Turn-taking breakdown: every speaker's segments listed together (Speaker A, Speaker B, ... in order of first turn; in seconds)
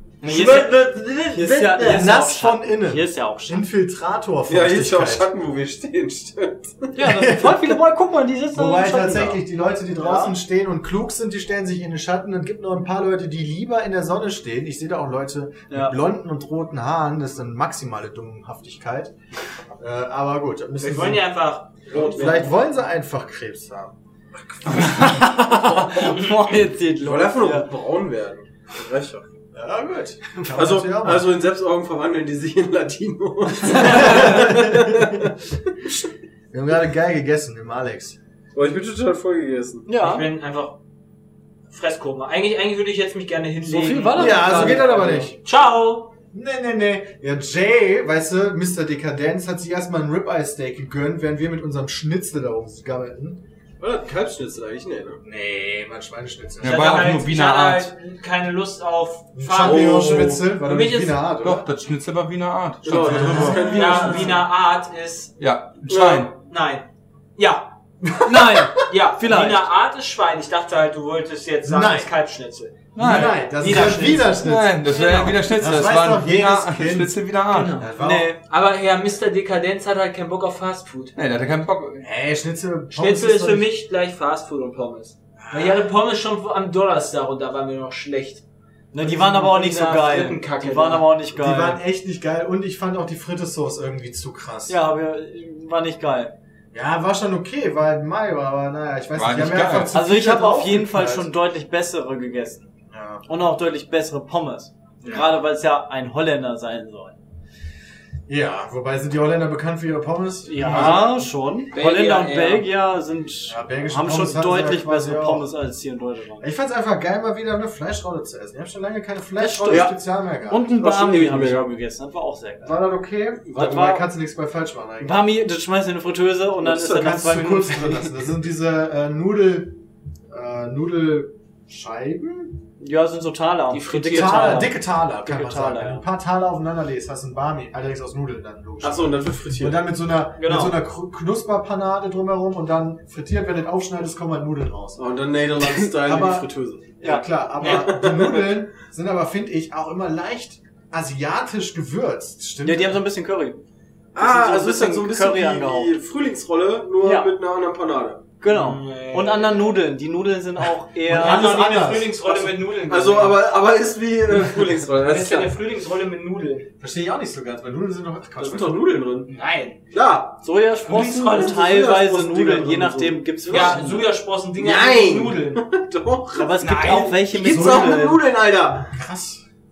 Speaker A: 0.2-3.7, 6.9-10.4, 15.7-16.0, 24.7-27.7, 34.0-34.2, 39.9-40.3, 43.6-45.3, 63.1-64.3, 68.2-69.7, 78.0-78.4, 88.9-91.8, 94.7-96.3, 99.9-102.7, 103.3-107.2, 110.5-116.5, 119.4-120.0, 120.5-122.8, 123.5-124.0, 125.0-128.1, 132.8-136.0, 140.4-140.8, 152.6-153.6, 154.2-156.0, 157.0-157.3, 158.4-161.7, 170.4-174.1, 176.4-178.2
Speaker B: 1.4-2.0, 4.5-6.9, 21.9-22.5, 27.0-29.3, 30.5-36.0, 38.5-39.9, 44.5-44.9, 53.8-55.2, 59.6-60.4, 62.8-64.5, 65.9-66.3, 119.7-119.9, 120.7-121.7, 138.8-139.8, 145.0-146.9, 147.6-148.5, 154.2-158.2, 162.9-165.5, 168.4-169.3, 169.9-170.4, 171.3-173.9, 174.6-178.9
Speaker C: 1.8-5.3, 7.0-7.8, 8.5-19.1, 19.8-21.3, 21.9-23.9, 29.5-31.3, 33.7-35.3, 36.5-38.2, 44.1-45.4, 46.3-53.4, 55.2-57.0, 59.4-61.7, 62.9-63.7, 71.7-72.1, 73.0-74.8, 75.5-78.3, 82.0-83.7, 85.4-85.9, 91.3-94.8, 96.7-101.3, 102.9-103.3, 105.0-105.4, 108.3-111.2, 113.5-115.5, 116.4-120.7, 122.6-125.3, 126.7-129.8, 130.3-132.6, 134.1-145.0, 145.6-146.5, 147.0-153.0, 161.1-162.4, 166.8-168.8, 177.4-179.4
Speaker D: 20.8-22.5, 40.0-40.8, 41.7-46.1, 56.6-61.3, 63.4-65.3, 66.4-66.9, 67.4-67.7, 68.7-72.9, 73.5-75.4, 77.5-77.9, 78.5-81.1, 82.9-88.4, 89.0-91.2, 111.7-112.7, 133.7-134.7, 147.6-148.2, 158.5-159.8, 161.1-163.4, 165.0-166.7, 169.3-169.8, 170.9-171.6, 173.5-175.6, 176.6-177.2
Speaker E: 56.6-57.9, 61.4-63.6, 65.4-66.3, 73.0-77.8, 81.2-82.1, 99.2-100.0